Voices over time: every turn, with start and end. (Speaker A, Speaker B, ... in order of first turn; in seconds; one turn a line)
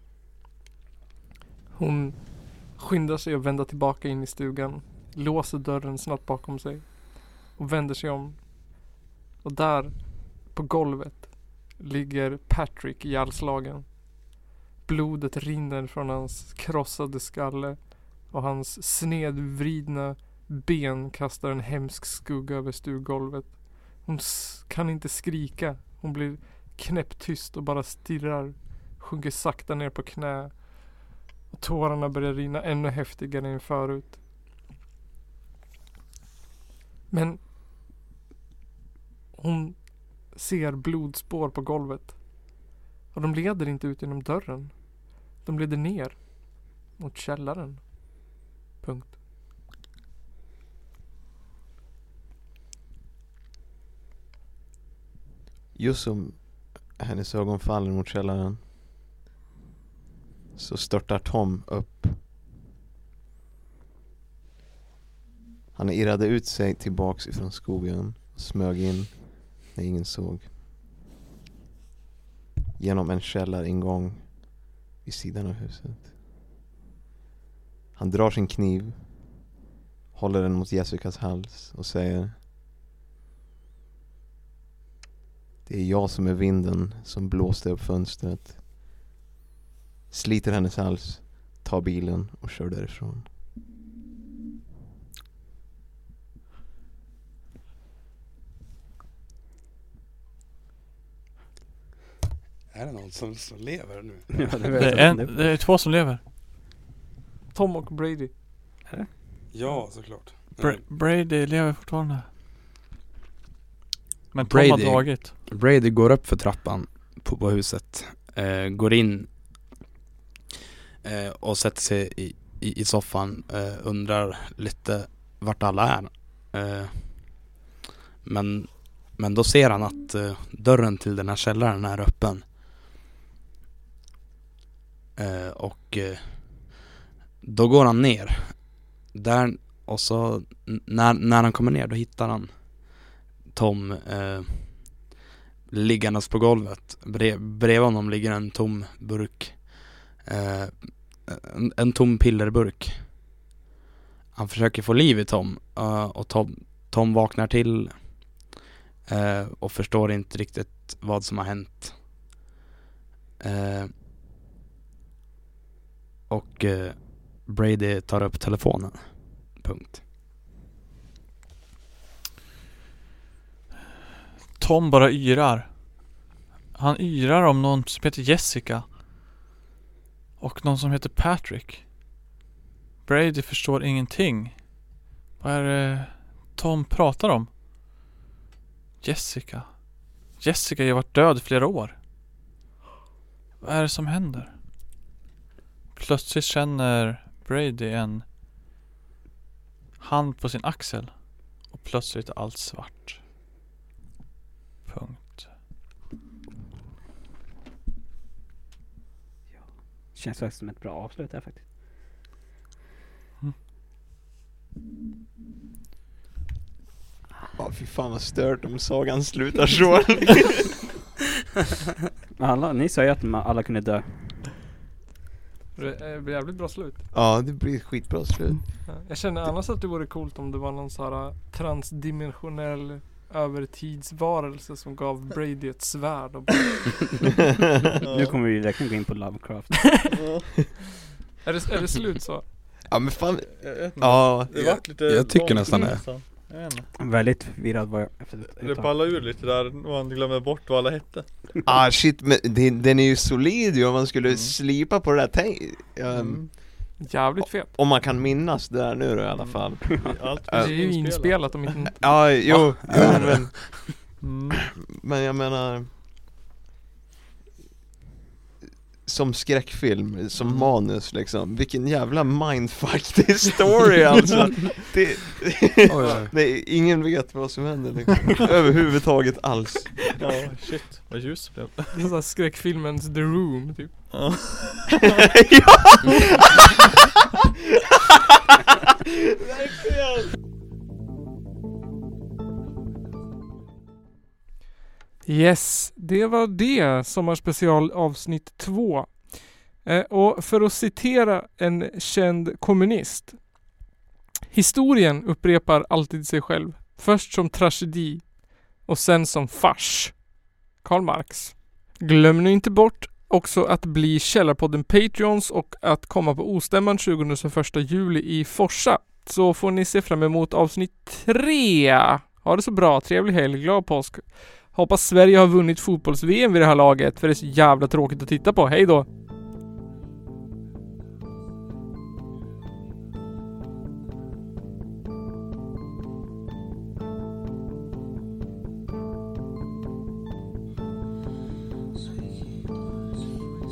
Speaker A: 1.7-34.2
Speaker A: 37.1-37.5
Speaker A: 39.3-49.2
Speaker B: 55.8-58.7
Speaker B: 60.5-62.3
Speaker B: 65.8-70.5
Speaker B: 72.8-76.1
Speaker B: 78.0-79.5
Speaker B: 80.1-82.4
Speaker B: 85.7-88.9
Speaker B: 90.1-93.3
Speaker C: 102.7-105.0
Speaker D: 104.3-105.6
Speaker E: 104.7-106.2
Speaker A: 107.5-108.3
Speaker D: 108.8-109.2
Speaker C: 109.5-110.8
Speaker E: 110.6-112.3
Speaker E: 114.3-115.3
Speaker C: 114.4-119.6
Speaker C: 121.0-127.5
Speaker C: 128.2-132.5
Speaker C: 135.2-136.8
Speaker C: 137.4-145.1
Speaker C: 145.7-153.1
Speaker C: 154.3-158.4
Speaker C: 159.1-162.1
Speaker C: 163.4-164.0
Speaker C: 166.3-170.0
Speaker E: 174.6-176.2
Speaker E: 176.7-179.0
Speaker E: 180.4-181.9
Speaker E: 183.0-187.5
Speaker E: 189.0-192.0
Speaker E: 193.6-194.6
Speaker E: 195.9-198.3
Speaker E: 200.0-203.2
Speaker E: 204.9-205.6
Speaker D: 209.5-211.7
Speaker B: 217.6-220.8
Speaker D: 222.4-224.6
Speaker A: 225.8-227.1
Speaker B: 227.1-229.5
Speaker A: 228.9-237.1
Speaker E: 238.0-238.4
Speaker D: 238.0-240.2
Speaker E: 240.1-240.4
Speaker A: 241.4-242.5
Speaker B: 242.9-244.9
Speaker E: 243.5-246.9
Speaker C: 245.0-246.3
Speaker D: 247.0-249.0
Speaker E: 248.5-251.3
Speaker B: 251.7-257.0
Speaker E: 254.3-254.5
Speaker E: 256.1-256.5
Speaker A: 257.0-257.7
Speaker B: 257.6-260.8
Speaker E: 259.3-261.4
Speaker A: 260.6-262.1
Speaker B: 261.9-263.5
Speaker E: 262.5-264.6
Speaker C: 262.5-263.9
Speaker B: 264.8-265.9
Speaker B: 269.0-280.1
Speaker E: 270.4-270.7
Speaker C: 275.9-276.3
Speaker E: 280.2-282.0
Speaker A: 281.9-284.3
Speaker E: 284.1-284.9
Speaker B: 285.4-286.3
Speaker E: 289.7-290.2
Speaker A: 295.2-303.7
Speaker A: 304.5-329.1